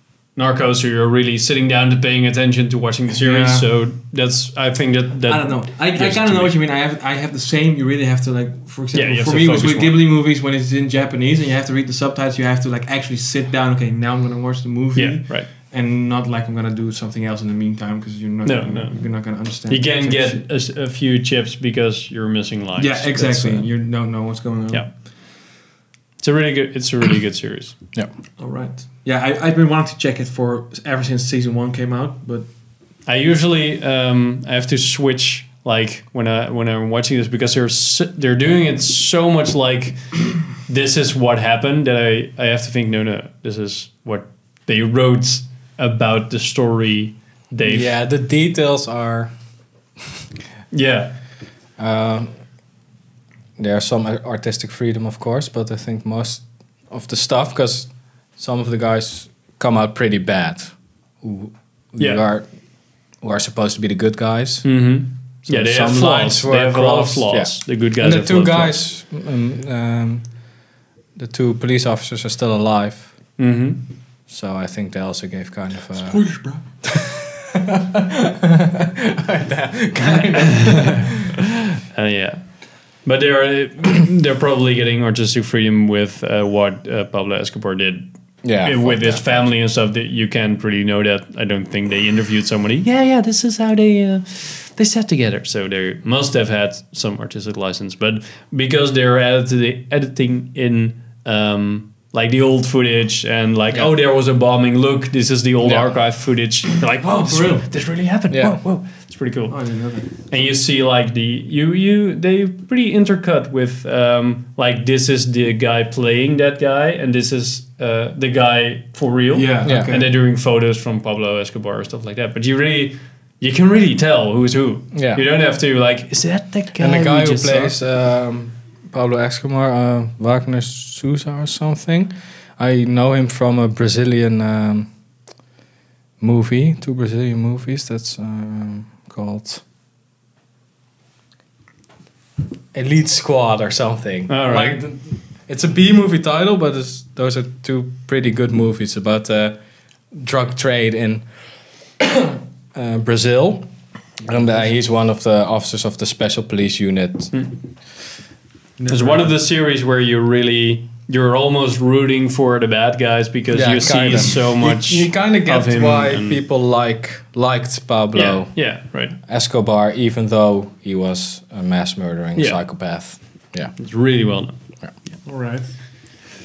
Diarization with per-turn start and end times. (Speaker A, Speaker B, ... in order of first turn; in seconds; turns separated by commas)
Speaker A: 0.4-6.5, Speaker B: 3.1-3.6, Speaker B: 5.3-20.4, Speaker A: 8.9-10.0, Speaker A: 14.9-15.5, Speaker A: 18.4-19.1, Speaker A: 19.7-23.7, Speaker B: 22.8-24.9, Speaker A: 26.2-27.8, Speaker B: 28.4-32.5, Speaker A: 33.1-47.9, Speaker C: 47.6-49.3, Speaker A: 50.7-51.1, Speaker C: 51.8-52.3, Speaker C: 53.6-62.5, Speaker A: 62.0-62.2, Speaker C: 63.2-64.7, Speaker A: 64.6-68.8, Speaker C: 65.5-70.2, Speaker C: 71.2-73.1, Speaker A: 73.4-73.8, Speaker C: 74.3-76.2, Speaker B: 76.0-76.6, Speaker C: 76.8-81.4, Speaker A: 80.4-81.1, Speaker A: 81.9-82.4, Speaker A: 83.0-88.0, Speaker C: 88.4-89.5, Speaker A: 88.6-109.6, Speaker C: 105.6-105.9, Speaker B: 107.2-107.7, Speaker C: 108.3-108.6, Speaker B: 109.5-110.1, Speaker A: 110.2-127.7, Speaker B: 119.3-120.1, Speaker C: 119.6-119.9, Speaker C: 124.9-125.2, Speaker C: 126.8-134.9, Speaker C: 136.2-139.6, Speaker C: 142.7-149.6, Speaker A: 144.3-144.8, Speaker C: 150.1-151.2, Speaker C: 152.0-153.7, Speaker C: 154.2-157.3, Speaker B: 158.8-159.3, Speaker A: 158.9-166.4, Speaker C: 163.5-168.6, Speaker A: 168.1-169.2, Speaker C: 169.2-173.7, Speaker A: 173.8-174.6, Speaker B: 175.2-175.7